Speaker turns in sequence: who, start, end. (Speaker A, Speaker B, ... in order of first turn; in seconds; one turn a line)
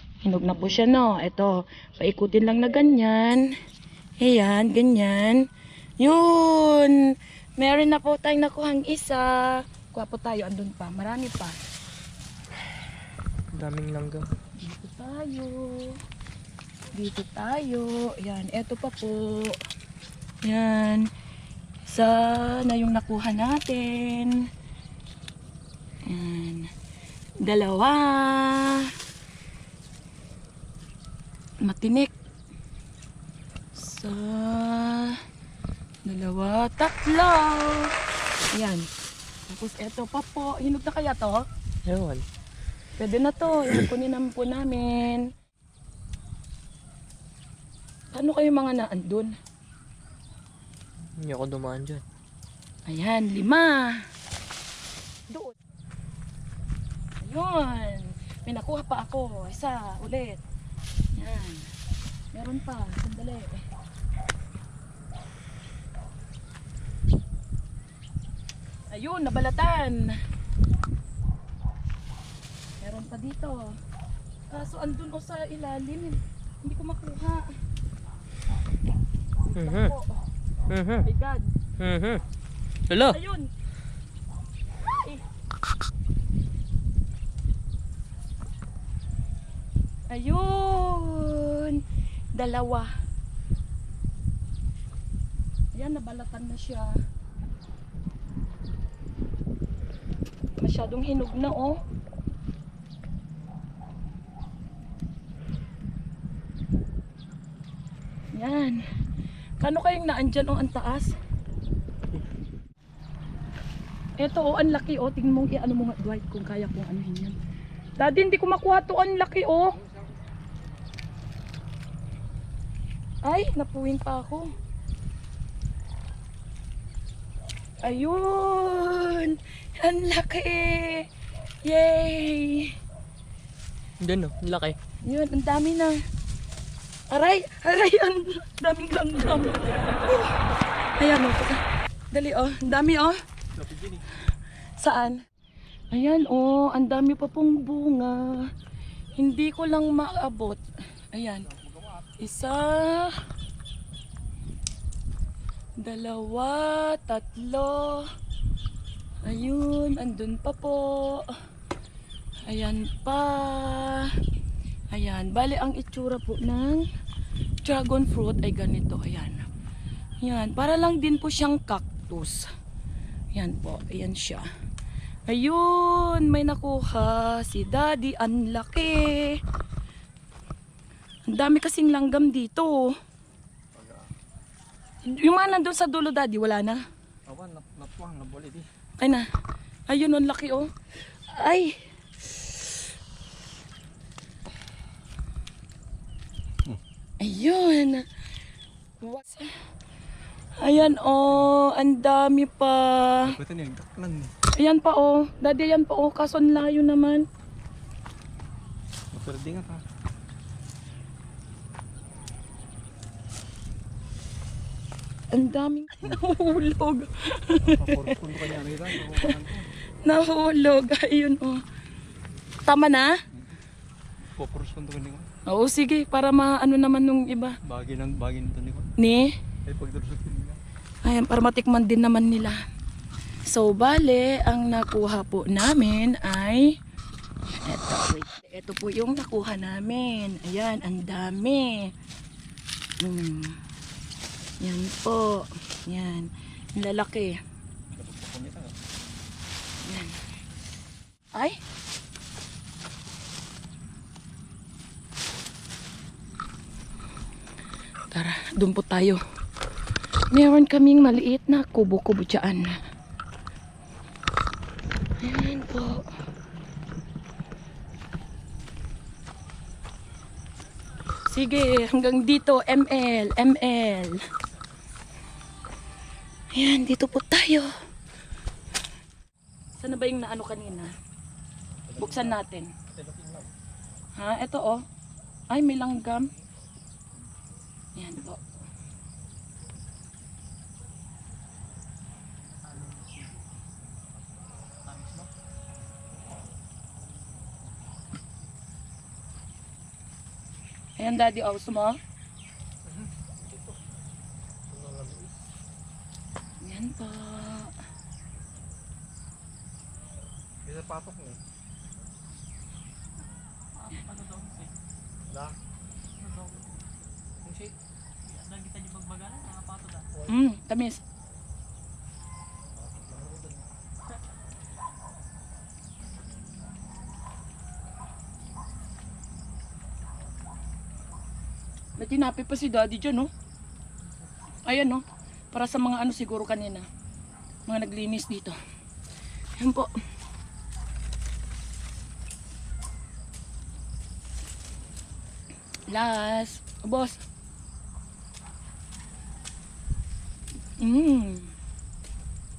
Speaker A: 0.2-3.5
Speaker A: 4.2-5.5
Speaker A: 6.0-11.6
Speaker B: 13.5-14.3
Speaker A: 14.6-16.0
Speaker A: 16.9-19.6
Speaker A: 20.4-21.1
Speaker A: 21.8-24.5
Speaker A: 26.1-26.7
Speaker A: 27.4-28.9
Speaker A: 31.6-32.1
Speaker A: 33.7-35.2
Speaker A: 36.0-38.0
Speaker A: 38.5-38.9
Speaker A: 39.5-41.5
Speaker B: 41.9-42.2
Speaker A: 43.0-45.3
Speaker A: 48.1-49.3
Speaker B: 51.2-52.0
Speaker A: 52.9-54.0
Speaker A: 55.3-55.5
Speaker A: 57.2-60.4
Speaker A: 61.2-61.7
Speaker A: 62.3-63.6
Speaker A: 68.9-70.2
Speaker A: 72.8-73.8
Speaker A: 74.5-77.5
Speaker A: 79.5-80.2
Speaker B: 79.5-79.9
Speaker B: 80.7-81.1
Speaker A: 81.0-81.5
Speaker B: 81.8-82.2
Speaker B: 82.9-83.2
Speaker A: 83.0-83.5
Speaker A: 84.8-85.2
Speaker A: 90.1-92.9
Speaker A: 95.7-97.0
Speaker A: 100.6-101.8
Speaker A: 108.3-108.8
Speaker A: 109.6-111.2
Speaker A: 114.2-117.4
Speaker A: 118.0-119.8
Speaker A: 123.2-124.5
Speaker A: 127.8-131.1
Speaker A: 131.6-132.8
Speaker B: 134.0-134.8
Speaker A: 135.0-136.0
Speaker A: 137.1-140.4
Speaker A: 140.9-143.2
Speaker C: 143.5-144.0
Speaker A: 144.8-145.2
Speaker A: 145.9-148.5
Speaker A: 149.2-151.5
Speaker C: 151.5-152.1
Speaker A: 152.2-153.2
Speaker A: 155.8-158.1
Speaker A: 159.2-161.3
Speaker A: 162.4-164.1
Speaker A: 164.9-166.8
Speaker A: 167.6-169.4
Speaker A: 170.2-172.5
Speaker A: 173.3-174.4
Speaker A: 175.3-179.4
Speaker A: 181.3-182.9
Speaker C: 183.7-184.1
Speaker A: 185.0-186.8
Speaker C: 187.3-188.7
Speaker A: 189.0-189.3
Speaker A: 189.9-190.7
Speaker A: 191.3-192.8
Speaker A: 197.2-198.1
Speaker A: 199.0-199.5
Speaker A: 200.6-203.3
Speaker C: 203.2-204.3
Speaker A: 204.5-207.2
Speaker C: 209.1-209.8
Speaker A: 215.3-218.1
Speaker C: 217.6-219.7
Speaker A: 219.0-219.4
Speaker A: 220.0-221.6
Speaker A: 222.7-223.1
Speaker C: 224.3-225.3
Speaker A: 225.4-227.6
Speaker C: 227.7-228.9
Speaker A: 229.0-229.3
Speaker C: 229.7-230.6
Speaker A: 231.0-232.6
Speaker A: 233.5-236.8
Speaker A: 237.6-241.9
Speaker A: 243.0-243.6
Speaker A: 244.6-247.4
Speaker C: 247.9-248.8
Speaker A: 249.8-250.2
Speaker A: 251.3-251.6
Speaker A: 258.1-259.2
Speaker A: 260.3-262.8
Speaker A: 265.2-266.1
Speaker A: 271.2-274.2
Speaker A: 276.5-277.7
Speaker A: 279.8-280.9
Speaker C: 281.9-283.5
Speaker A: 282.0-282.7
Speaker A: 284.1-284.8
Speaker A: 285.5-286.3
Speaker A: 287.9-288.4
Speaker D: 292.6-293.4
Speaker D: 294.8-295.3
Speaker A: 301.0-302.0
Speaker C: 303.2-303.7
Speaker C: 304.7-305.4
Speaker A: 306.6-307.7
Speaker C: 310.6-311.4
Speaker D: 313.8-314.8
Speaker C: 315.3-315.6
Speaker D: 316.2-316.7
Speaker C: 317.4-317.7
Speaker D: 318.2-320.1
Speaker A: 320.2-321.0
Speaker C: 322.8-323.7
Speaker A: 332.0-333.3
Speaker A: 334.6-336.9
Speaker A: 337.6-338.6
Speaker A: 339.6-339.9
Speaker A: 345.9-347.2
Speaker A: 350.8-351.5